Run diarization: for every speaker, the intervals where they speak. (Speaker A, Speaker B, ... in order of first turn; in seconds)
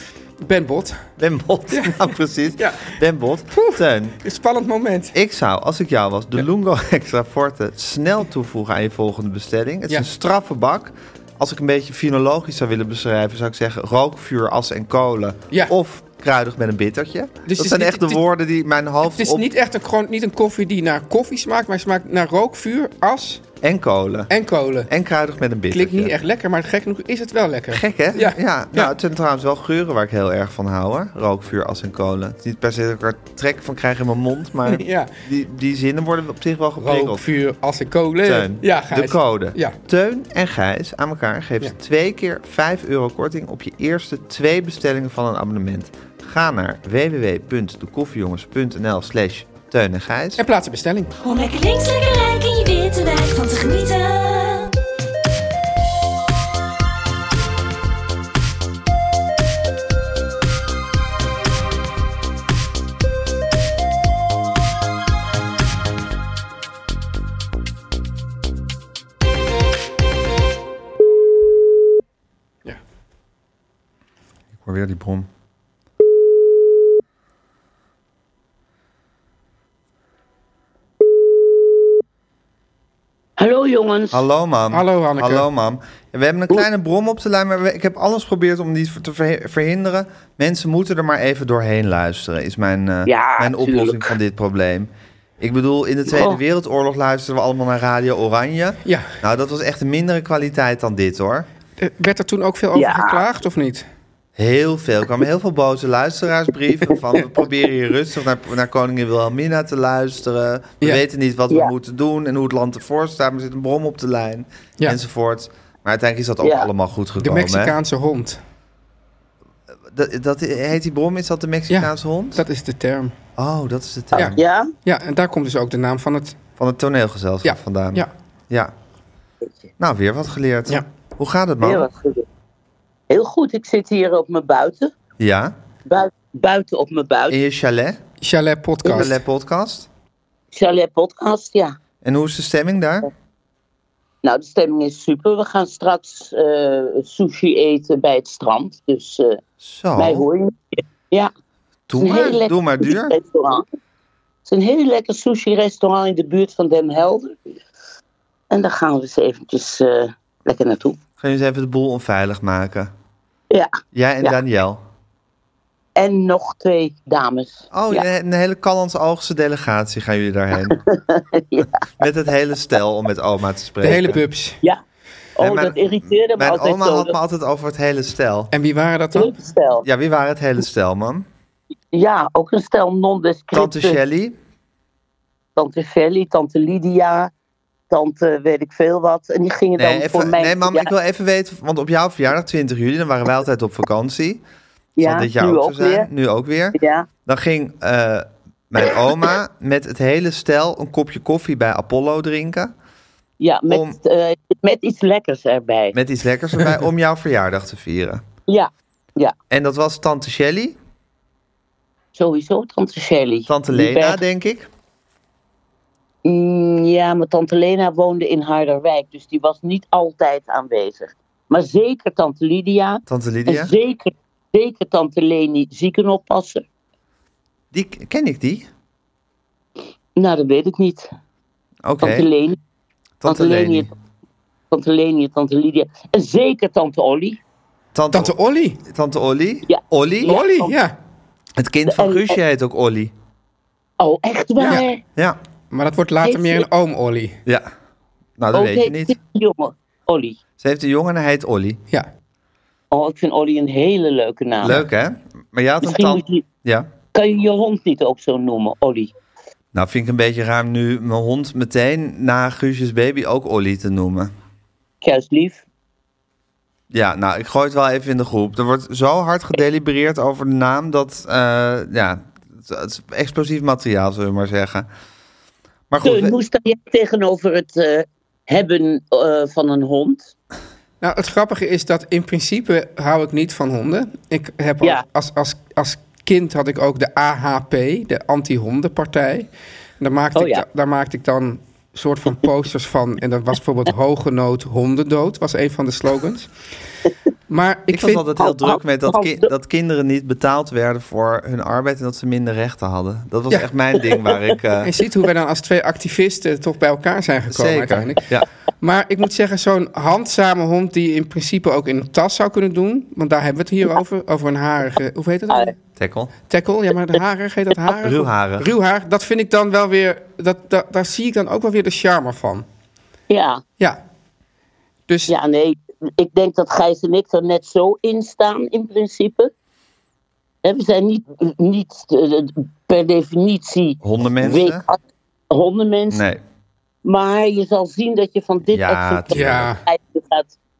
Speaker A: 0.4-1.0, 1.7-3.0, 3.5-5.1, 17.4-18.2, 19.1-23.4, 24.3-24.9, 25.7-28.9, 34.6-35.1, 36.8-39.8, 50.4-51.1, 84.7-85.5, 98.8-99.1, 101.8-103.8, 117.2-118.4, 121.7-123.1, 124.1-126.3, 127.4-128.1, 138.2-139.2, 173.8-174.6, 178.5-179.3, 238.1-238.8, 240.2-240.9, 245.7-247.4, 281.0-289.5, 290.0-296.5, 297.5-298.3, 304.8-308.2, 308.8-315.7, 316.5-322.6, 325.1-325.3, 339.3-339.8
Speaker B: 1.2-4.2, 5.1-19.5, 23.6-24.3, 24.9-26.1, 27.7-37.2, 38.2-50.4, 74.5-75.3, 84.1-101.5, 104.3-117.8, 119.9-122.4, 123.4-124.4, 126.6-128.7, 129.8-131.9, 135.2-135.5, 137.3-138.0, 138.9-139.9, 142.0-143.1, 149.6-150.3, 151.9-153.2, 161.2-162.9, 163.9-164.8, 167.7-170.8, 172.0-174.2, 175.4-178.5, 179.8-181.3, 183.5-184.4, 189.8-194.4, 195.0-202.7, 203.7-203.9, 205.9-208.2, 209.5-210.8, 213.5-214.7, 223.1-223.7, 227.7-228.7, 231.8-232.3, 233.2-233.9, 237.9-240.3, 241.6-243.1, 248.4-249.2, 250.6-251.8, 254.6-256.9, 259.7-264.3, 266.9-274.9, 275.9-276.4, 297.9-304.9, 307.5-308.4, 315.9-316.3, 318.0-318.7, 334.0-334.8, 336.1-336.4, 338.7-339.7
Speaker C: 51.2-54.7
Speaker D: 83.4-84.2, 93.0-94.1, 96.1-96.4, 102.7-103.2, 116.4-116.7, 124.2-124.7, 131.6-132.2, 133.1-134.9, 135.9-137.3, 140.5-141.7, 144.2-149.4, 150.0-151.3, 152.0-153.6, 154.4-157.4, 158.5-161.0, 163.5-164.3, 165.9-168.0, 170.7-171.8, 175.4-177.1, 179.1-179.8, 181.9-184.0, 185.6-187.3, 187.9-190.9, 195.0-196.1, 196.7-197.1, 203.4-205.9, 208.5-209.3, 212.1-214.2, 216.2-226.6, 230.2-231.1, 232.0-232.6, 233.2-233.9, 234.7-237.4, 239.7-240.7, 241.9-242.4, 244.0-245.0, 246.2-246.6, 248.5-250.4, 252.9-254.8, 255.8-256.4, 257.1-259.1, 265.0-265.6, 276.0-280.3, 290.3-290.6, 298.4-299.5, 323.3-323.6, 325.3-329.5, 330.6-335.0, 335.5-336.2, 337.0-340.6